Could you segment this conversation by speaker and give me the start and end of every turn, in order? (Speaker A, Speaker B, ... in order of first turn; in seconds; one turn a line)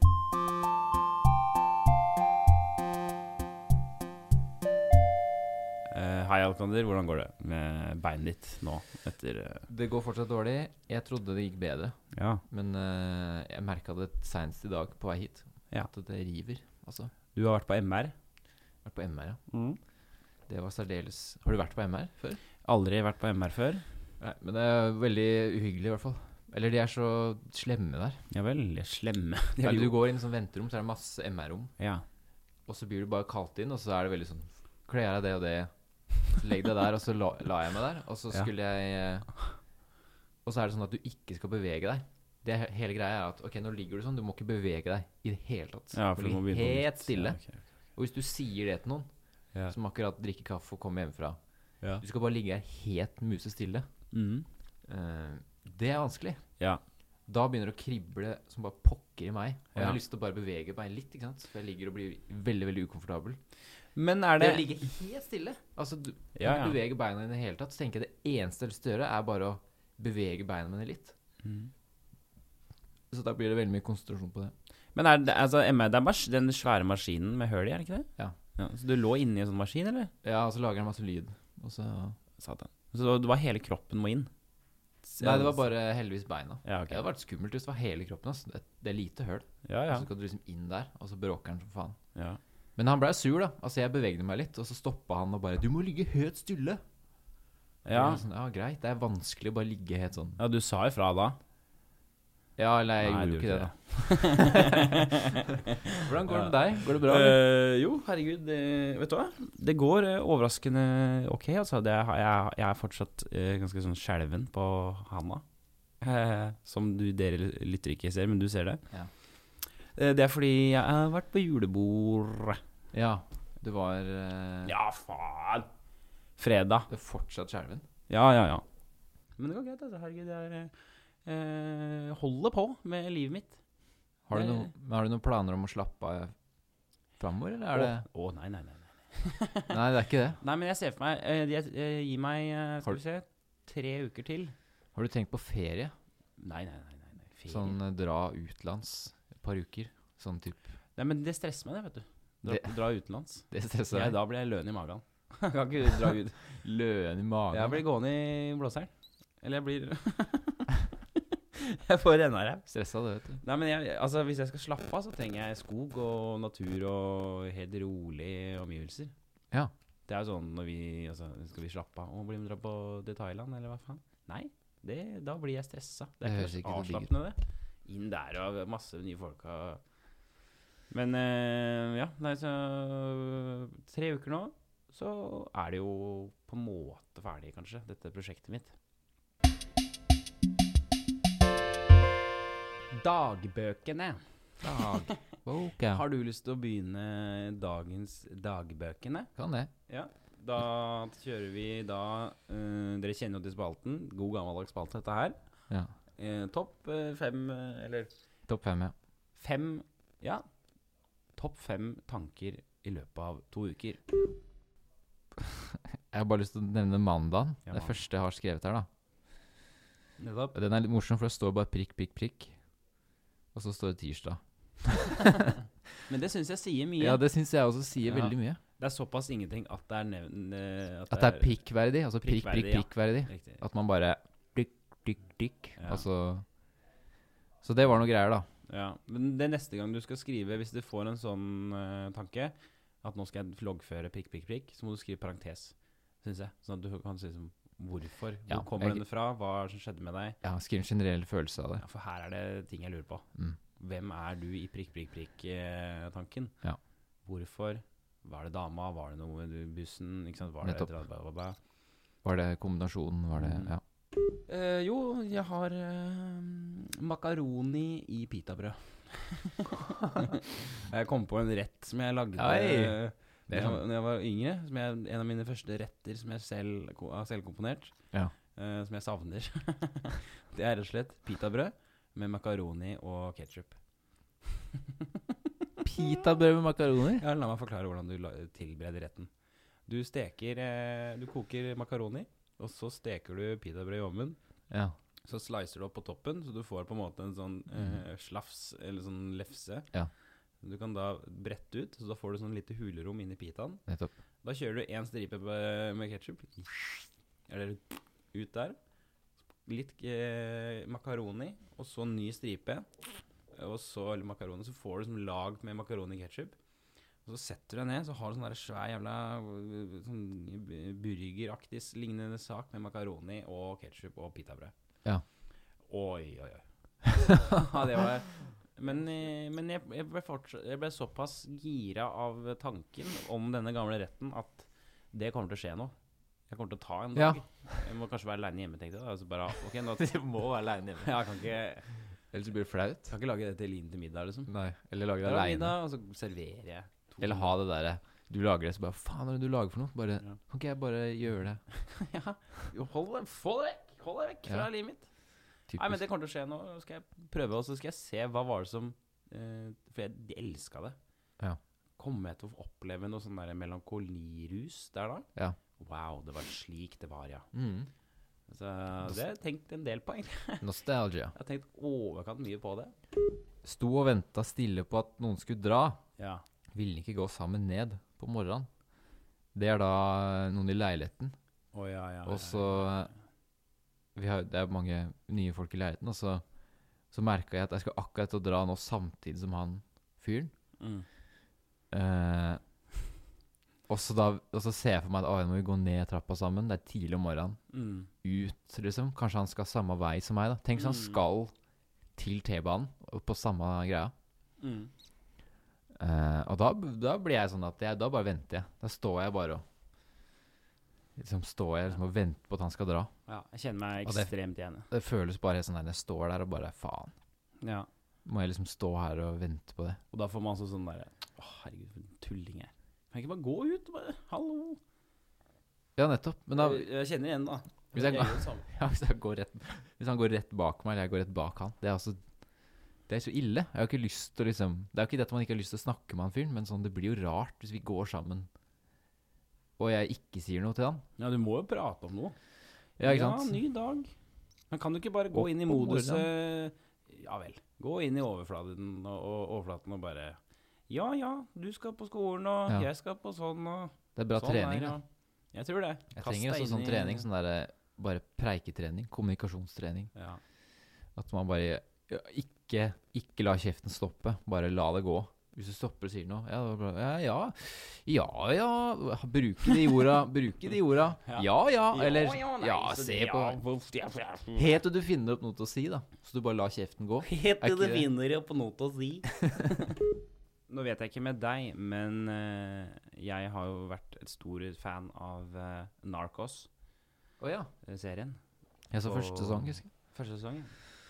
Speaker A: 5.9-9.7
Speaker B: 9.7-11.9
Speaker A: 12.1-12.4
Speaker B: 12.5-17.1
Speaker A: 17.3-18.1
Speaker B: 18.8-19.4
Speaker A: 19.5-19.8
Speaker B: 20.5-22.4
Speaker A: 22.6-23.9
Speaker B: 24.2-28.2
Speaker A: 28.3-30.0
Speaker B: 29.6-31.7
Speaker A: 31.8-32.0
Speaker B: 32.7-35.7
Speaker B: 36.2-39.3
Speaker B: 40.4-47.4
Speaker A: 45.9-47.6
Speaker B: 47.9-49.1
Speaker B: 49.7-51.4
Speaker B: 52.0-53.9
Speaker A: 54.1-54.5
Speaker B: 54.9-56.4
Speaker B: 57.3-63.4
Speaker A: 59.7-60.0
Speaker A: 63.9-64.7
Speaker B: 64.4-71.1
Speaker A: 66.3-66.8
Speaker A: 71.4-71.7
Speaker B: 73.1-74.5
Speaker A: 74.9-80.1
Speaker B: 80.2-82.2
Speaker A: 82.4-84.3
Speaker A: 85.0-85.6
Speaker B: 85.2-92.0
Speaker A: 86.6-87.0
Speaker A: 89.6-90.1
Speaker A: 92.1-92.4
Speaker B: 92.8-96.8
Speaker A: 97.8-98.2
Speaker B: 97.9-100.4
Speaker A: 100.4-101.4
Speaker B: 102.6-105.1
Speaker A: 103.0-115.4
Speaker B: 105.9-107.4
Speaker A: 116.0-118.8
Speaker A: 119.9-122.6
Speaker B: 122.9-124.7
Speaker A: 124.6-125.7
Speaker A: 126.4-126.9
Speaker B: 126.9-127.8
Speaker A: 128.1-128.6
Speaker A: 129.4-130.7
Speaker A: 131.2-133.6
Speaker B: 134.3-136.3
Speaker A: 134.3-134.7
Speaker B: 137.2-138.1
Speaker A: 137.7-139.8
Speaker B: 139.7-140.4
Speaker A: 140.4-144.5
Speaker B: 144.9-145.9
Speaker A: 146.4-147.8
Speaker B: 147.5-150.7
Speaker A: 150.9-156.5
Speaker B: 152.4-152.7
Speaker B: 153.5-154.2
Speaker B: 155.9-157.8
Speaker A: 157.5-162.7
Speaker B: 162.7-163.4
Speaker A: 163.4-169.1
Speaker A: 170.1-179.8
Speaker B: 176.2-177.1
Speaker A: 180.9-188.7
Speaker A: 192.9-195.3
Speaker B: 194.6-196.0
Speaker A: 195.9-199.3
Speaker B: 199.3-199.7
Speaker A: 199.9-205.4
Speaker A: 206.2-208.1
Speaker B: 208.5-208.9
Speaker A: 209.4-210.4
Speaker A: 211.3-214.0
Speaker B: 215.4-218.9
Speaker A: 217.7-218.0
Speaker A: 220.2-220.6
Speaker B: 220.5-222.6
Speaker B: 223.5-225.6
Speaker A: 225.2-225.5
Speaker A: 226.1-227.2
Speaker B: 227.0-228.6
Speaker A: 228.0-231.5
Speaker B: 231.1-236.4
Speaker A: 232.2-233.6
Speaker A: 235.8-236.1
Speaker B: 237.6-238.5
Speaker A: 238.7-250.4
Speaker B: 248.5-249.0
Speaker B: 250.4-251.8
Speaker A: 251.8-253.2
Speaker A: 253.8-256.5
Speaker A: 257.2-261.6
Speaker B: 260.6-260.9
Speaker B: 262.2-263.8
Speaker A: 263.4-263.7
Speaker A: 264.4-277.9
Speaker B: 272.4-273.8
Speaker A: 278.6-283.8
Speaker A: 284.4-286.1
Speaker B: 285.8-287.2
Speaker A: 287.1-289.3
Speaker A: 289.9-294.4
Speaker A: 295.2-299.9
Speaker B: 297.7-298.0
Speaker A: 300.6-303.8
Speaker B: 303.9-304.1
Speaker A: 304.4-308.8
Speaker A: 309.6-312.9
Speaker A: 313.5-316.6
Speaker A: 317.2-324.7
Speaker A: 325.9-335.9
Speaker B: 327.3-328.0
Speaker A: 336.5-340.1
Speaker B: 337.1-337.4
Speaker B: 339.8-341.1
Speaker A: 341.0-341.9
Speaker B: 342.3-343.1
Speaker A: 343.1-344.5
Speaker B: 344.5-345.8
Speaker A: 345.2-347.5
Speaker B: 347.2-351.6
Speaker A: 351.7-355.1
Speaker B: 355.7-356.0
Speaker A: 355.8-360.9
Speaker A: 362.0-365.3
Speaker A: 365.8-367.5
Speaker B: 367.5-367.9
Speaker A: 368.5-370.7
Speaker B: 370.6-371.3
Speaker A: 371.3-372.9
Speaker B: 373.6-376.0
Speaker A: 376.2-376.4
Speaker B: 376.7-378.7
Speaker B: 379.5-381.3
Speaker A: 381.7-383.1
Speaker B: 382.2-383.1
Speaker B: 384.1-386.4
Speaker B: 387.1-390.5
Speaker A: 390.8-391.1
Speaker B: 391.9-392.6
Speaker B: 393.9-397.6
Speaker A: 397.7-398.1
Speaker B: 398.2-401.5
Speaker A: 400.8-401.2
Speaker B: 402.1-404.1
Speaker A: 404.6-404.9
Speaker B: 406.0-409.6
Speaker B: 411.2-413.1
Speaker A: 413.3-414.9
Speaker B: 414.0-414.3
Speaker B: 414.9-417.1
Speaker A: 417.6-417.9
Speaker B: 418.2-420.0
Speaker A: 420.1-424.8
Speaker B: 425.9-426.9
Speaker A: 426.5-428.6
Speaker B: 427.9-432.2
Speaker B: 433.1-438.5
Speaker B: 439.8-441.0
Speaker A: 441.2-442.4
Speaker B: 443.0-443.6
Speaker A: 443.0-444.1
Speaker A: 444.7-457.3
Speaker B: 445.3-446.3
Speaker B: 454.1-455.0
Speaker B: 456.1-460.1
Speaker A: 460.1-460.4
Speaker B: 461.1-473.6
Speaker A: 471.2-474.8
Speaker B: 474.6-478.1
Speaker A: 477.2-480.0
Speaker B: 479.4-479.7
Speaker A: 480.7-486.7
Speaker B: 487.4-487.7
Speaker A: 487.8-488.4
Speaker B: 488.9-489.9
Speaker A: 489.0-490.8